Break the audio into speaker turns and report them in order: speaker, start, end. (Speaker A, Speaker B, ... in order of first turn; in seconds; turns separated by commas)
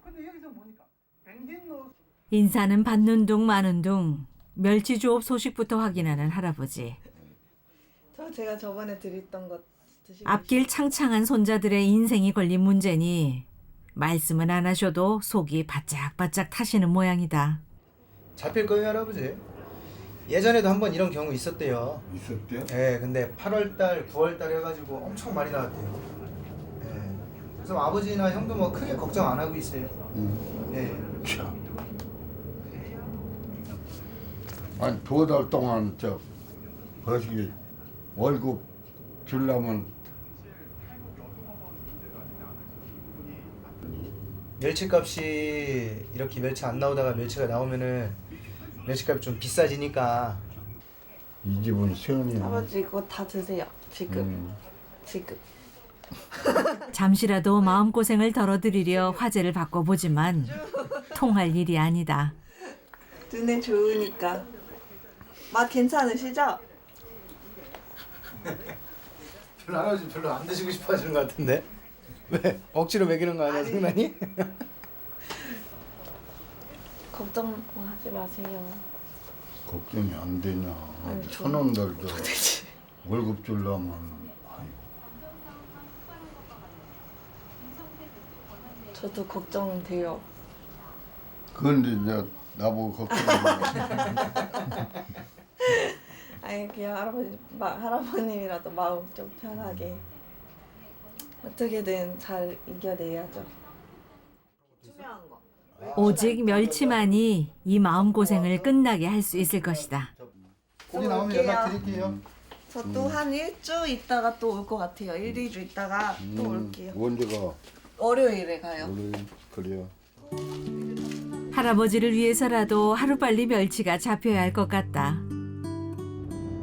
Speaker A: 2.3-7.0, Speaker B: 8.1-10.7, Speaker A: 10.2-17.6, Speaker C: 18.4-19.4, Speaker C: 20.3-22.1, Speaker D: 22.1-22.7, Speaker C: 22.7-26.1, Speaker C: 26.8-29.9, Speaker D: 30.1-30.5, Speaker C: 30.7-31.1, Speaker D: 31.2-31.6, Speaker D: 34.8-36.2, Speaker D: 37.0-37.5, Speaker D: 38.1-38.6, Speaker D: 39.2-39.9, Speaker C: 44.6-48.2, Speaker C: 48.8-50.5, Speaker D: 51.4-52.7, Speaker B: 52.4-54.3, Speaker D: 54.1-54.6, Speaker B: 55.0-55.4, Speaker B: 56.4-56.9, Speaker A: 56.9-62.4, Speaker B: 60.6-61.0, Speaker B: 63.3-64.5, Speaker B: 65.5-66.6, Speaker C: 69.6-71.7, Speaker C: 72.3-74.5, Speaker B: 73.5-74.0, Speaker B: 77.1-78.8, Speaker D: 79.7-82.3, Speaker B: 81.0-82.7, Speaker D: 83.0-84.8, Speaker B: 88.9-90.2, Speaker D: 91.5-94.2, Speaker B: 93.3-94.0, Speaker B: 95.6-100.0, Speaker B: 101.4-103.5, Speaker B: 104.8-105.4, Speaker B: 105.9-106.7, Speaker A: 105.9-110.1, Speaker B: 110.9-111.8, Speaker C: 110.9-112.2, Speaker D: 111.8-112.2, Speaker B: 112.7-117.0, Speaker D: 112.8-113.2, Speaker D: 116.2-117.6, Speaker B: 118.0-118.9, Speaker D: 118.8-119.9, Speaker B: 120.5-121.5, Speaker A: 121.5-125.2